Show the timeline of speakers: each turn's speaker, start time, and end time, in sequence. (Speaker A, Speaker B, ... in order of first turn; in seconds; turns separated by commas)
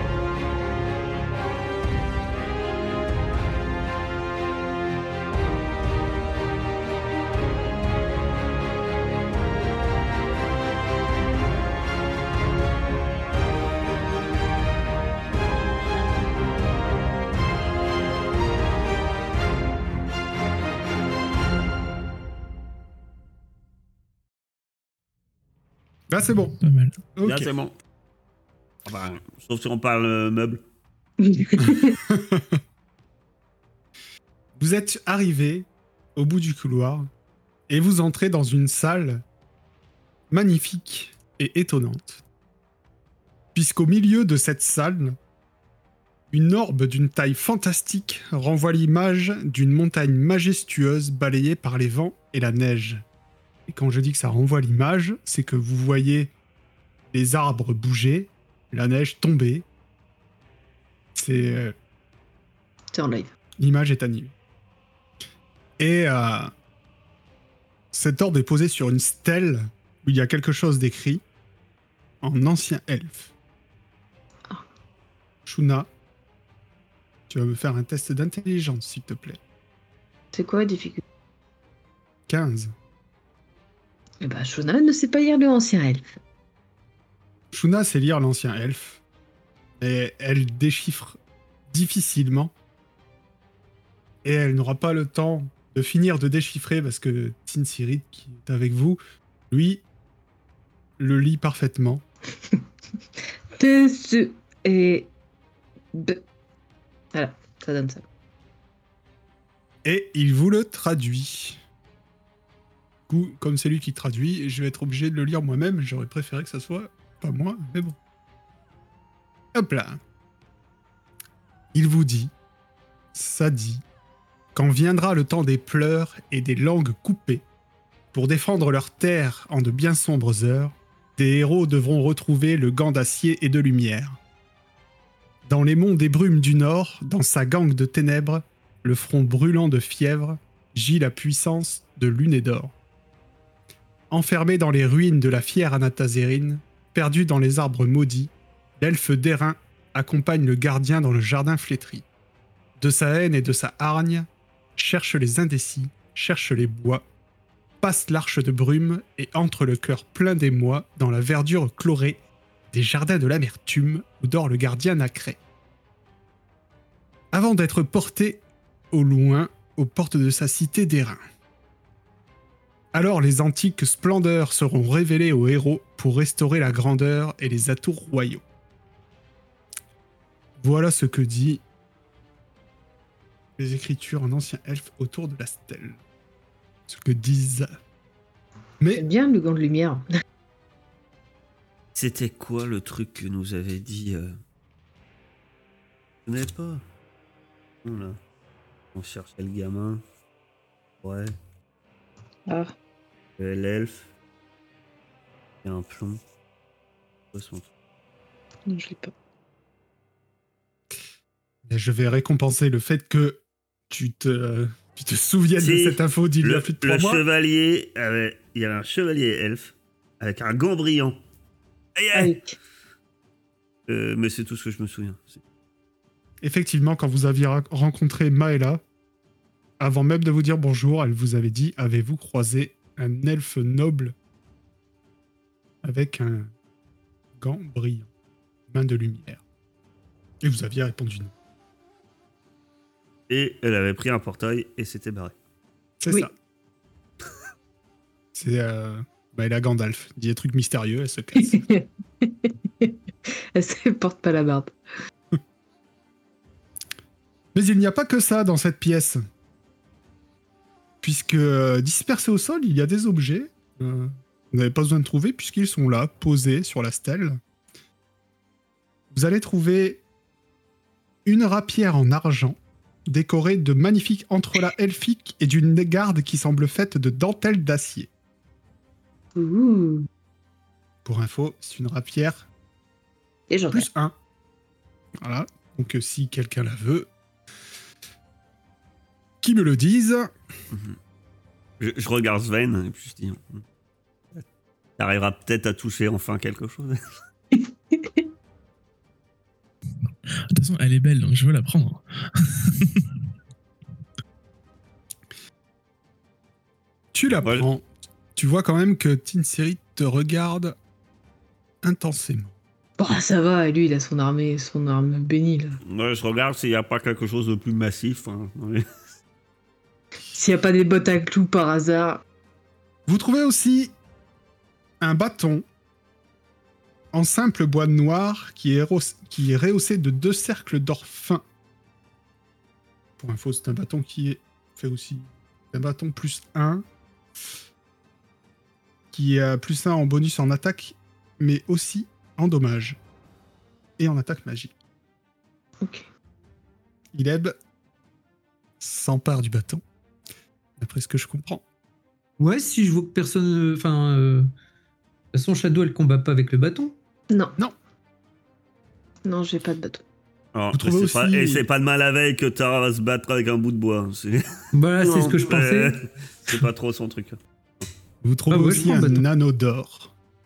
Speaker A: 26.1-26.6, Speaker B: 26.6-27.0, Speaker A: 27.2-27.5, Speaker C: 27.2-27.7, Speaker C: 28.9-30.6, Speaker D: 31.2-32.0, Speaker A: 32.0-32.6, Speaker A: 34.6-37.1, Speaker A: 37.7-39.2, Speaker A: 40.3-42.2, Speaker A: 43.5-45.2, Speaker A: 46.3-53.0, Speaker A: 53.7-56.3, Speaker A: 57.1-59.7, Speaker A: 61.1-61.8, Speaker D: 62.9-63.3, Speaker A: 63.6-64.3, Speaker A: 65.8-66.5, Speaker A: 67.9-71.2, Speaker A: 72.2-73.3, Speaker A: 75.5-75.9, Speaker A: 77.3-79.4, Speaker D: 80.3-81.0, Speaker A: 82.3-82.7, Speaker D: 84.2-86.2, Speaker A: 87.5-89.0, Speaker A: 89.8-92.5, Speaker A: 94.2-99.0, Speaker A: 99.5-99.8, Speaker A: 101.0-102.0, Speaker D: 103.6-105.1, Speaker D: 105.9-106.2, Speaker D: 107.1-108.0, Speaker A: 109.8-111.6, Speaker A: 113.1-118.0, Speaker A: 119.5-120.0, Speaker A: 121.7-122.3, Speaker A: 123.1-123.8, Speaker A: 124.5-127.5, Speaker A: 128.1-134.2, Speaker A: 135.4-142.8, Speaker A: 144.1-152.1, Speaker A: 152.8-157.1, Speaker A: 157.8-162.2, Speaker A: 162.7-165.4, Speaker A: 167.3-171.2, Speaker A: 172.9-178.4, Speaker A: 180.6-181.6, Speaker A: 183.6-186.0, Speaker A: 186.9-187.8, Speaker D: 188.9-190.1, Speaker C: 191.9-194.4, Speaker C: 196.3-196.8, Speaker C: 197.8-198.2, Speaker C: 198.9-200.0, Speaker C: 201.0-201.3, Speaker C: 203.4-204.1, Speaker C: 205.6-206.2, Speaker C: 207.3-207.7, Speaker D: 208.7-209.1, Speaker A: 211.7-217.2, Speaker C: 215.6-221.2, Speaker C: 222.0-222.3, Speaker D: 222.1-222.6, Speaker C: 223.9-225.4, Speaker A: 226.4-228.8, Speaker A: 229.8-234.2, Speaker A: 235.8-236.5, Speaker A: 237.3-238.1, Speaker A: 238.7-239.4, Speaker A: 240.4-241.3, Speaker C: 243.3-245.3, Speaker A: 246.0-246.3, Speaker A: 248.3-251.7, Speaker D: 251.4-254.7, Speaker A: 257.5-259.2, Speaker A: 261.0-267.4, Speaker A: 269.1-270.0, Speaker A: 271.3-278.1, Speaker D: 279.4-280.1, Speaker A: 281.1-282.5, Speaker D: 283.5-283.9, Speaker A: 283.7-284.1, Speaker A: 285.2-287.1, Speaker A: 289.4-290.3, Speaker C: 290.7-291.0, Speaker C: 291.8-293.6, Speaker C: 295.0-297.0, Speaker D: 297.6-298.2, Speaker B: 300.5-303.1, Speaker A: 307.1-310.8, Speaker A: 311.8-312.5, Speaker D: 313.0-315.8, Speaker C: 315.9-318.9, Speaker D: 320.3-322.2, Speaker A: 323.1-323.9, Speaker A: 325.0-325.6, Speaker A: 327.1-331.4, Speaker A: 333.2-336.9, Speaker A: 339.1-343.0, Speaker A: 344.0-344.7, Speaker D: 345.8-346.1, Speaker A: 347.1-347.6, Speaker A: 348.8-349.8, Speaker A: 350.8-351.6, Speaker E: 352.4-354.5, Speaker E: 355.3-356.9, Speaker D: 359.2-360.0, Speaker C: 360.5-364.4, Speaker A: 360.7-361.6, Speaker E: 364.7-366.6, Speaker C: 365.0-367.4, Speaker A: 368.2-370.1, Speaker E: 368.5-369.2